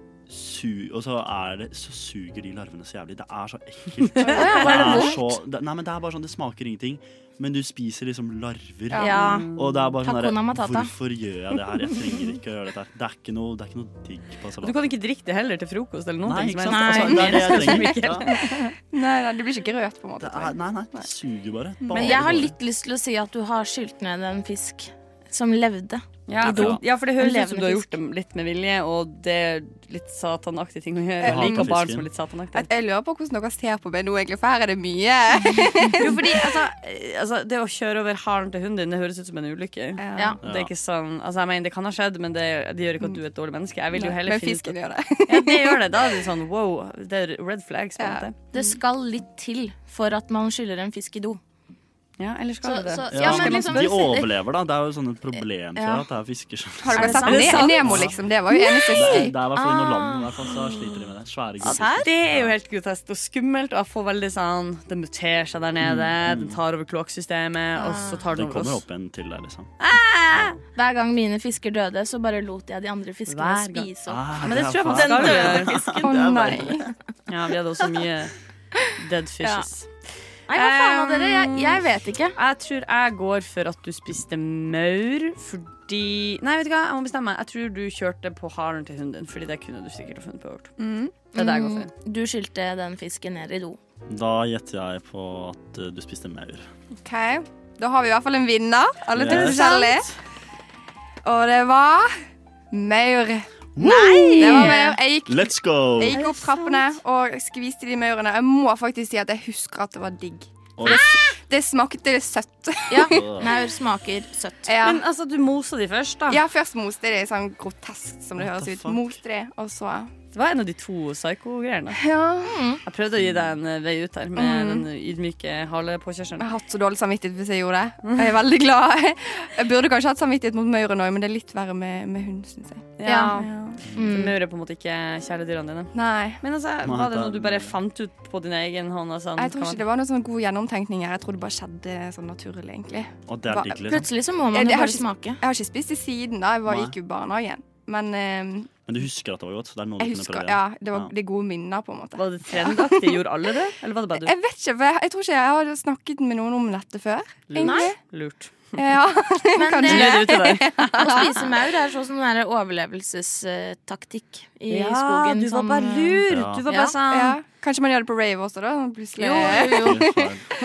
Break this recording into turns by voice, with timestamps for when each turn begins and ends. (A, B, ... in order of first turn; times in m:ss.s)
0:00.3-0:14.8 A
0:04.2-0:05.1 B
0:04.2-0:05.4 C
0:08.9-0:09.3 D
0:09.0-0:09.5 C
0:09.1-0:09.9 B
0:10.0-0:10.9 C
0:14.6-0:18.7 B
0:16.2-0:18.4 A
0:16.6-0:17.8 C
0:18.5-0:21.1 D
0:20.2-0:22.6 A
0:21.8-0:22.1 D
0:21.9-0:27.9 C
0:26.3-0:32.7 B
0:26.5-0:26.8 A
0:31.2-0:31.7 D
0:31.2-0:32.1 A
0:32.5-0:36.6 D
0:36.0-0:48.3 B
0:40.0-0:40.4 D
0:40.4-0:40.7 A
0:44.0-0:45.9 D
0:48.0-0:48.7 D
0:48.5-0:51.4 C
0:52.2-0:53.9 B
0:52.6-0:54.3 C
0:53.1-0:58.2 A
0:55.8-0:56.0 C
0:56.8-0:59.4 D
0:56.9-1:01.0 C
0:57.2-0:58.0 B
0:58.9-1:02.5 A
1:01.6-1:02.0 C
1:01.6-1:08.8 B
1:05.8-1:06.6 A
1:07.8-1:08.3 C
1:08.3-1:09.7 A
1:09.8-1:10.6 B
1:10.7-1:15.9 C
1:13.3-1:16.1 B
1:14.1-1:16.9 A
1:16.0-1:16.9 D
1:17.3-1:18.3 B
1:19.0-1:19.9 B
1:19.4-1:19.7 C
1:20.5-1:22.4 C
1:20.5-1:21.8 B
1:22.3-1:30.7 B
1:30.8-1:31.1 D
1:31.3-1:31.9 B
1:31.3-1:33.8 C
1:34.1-1:36.7 A
1:37.0-1:40.1 D
1:39.1-1:39.8 A
1:39.3-1:40.0 C
1:41.2-1:42.2 D
1:42.7-1:43.5 D
1:43.8-1:46.2 A
1:43.8-1:45.0 C
1:44.4-1:53.4 D
1:46.1-1:47.0 B
1:50.8-1:51.0 A
1:52.9-1:54.7 C
1:53.0-1:53.5 A
1:54.6-1:55.0 D
1:54.8-1:56.4 B
1:56.3-2:00.1 D
1:58.4-1:59.2 A
2:00.3-2:02.0 B
2:02.0-2:02.6 D
2:02.4-2:02.8 C
2:02.8-2:06.4 B
2:03.2-2:03.6 A
2:04.4-2:04.8 D
2:06.4-2:13.8 D
2:08.0-2:08.3 B
2:13.0-2:19.8 B
2:13.1-2:13.4 C
2:13.8-2:14.2 A
2:13.9-2:14.4 C
2:15.9-2:16.4 D
2:16.8-2:17.7 A
2:19.4-2:23.8 D
2:23.3-2:24.1 A
2:23.9-2:25.4 C
2:24.5-2:28.7 D
2:26.6-2:26.9 A
2:28.9-2:31.1 A
2:30.0-2:33.2 D
2:32.2-2:34.3 B
2:34.2-2:38.0 D
2:37.5-2:38.7 B
2:37.6-2:37.9 C
2:38.8-2:41.4 D
2:39.6-2:47.0 C
2:39.8-2:41.2 B
2:44.7-2:47.4 B
2:46.3-2:46.6 A
2:47.1-2:50.3 D
2:49.2-2:50.0 C
2:49.4-2:50.4 A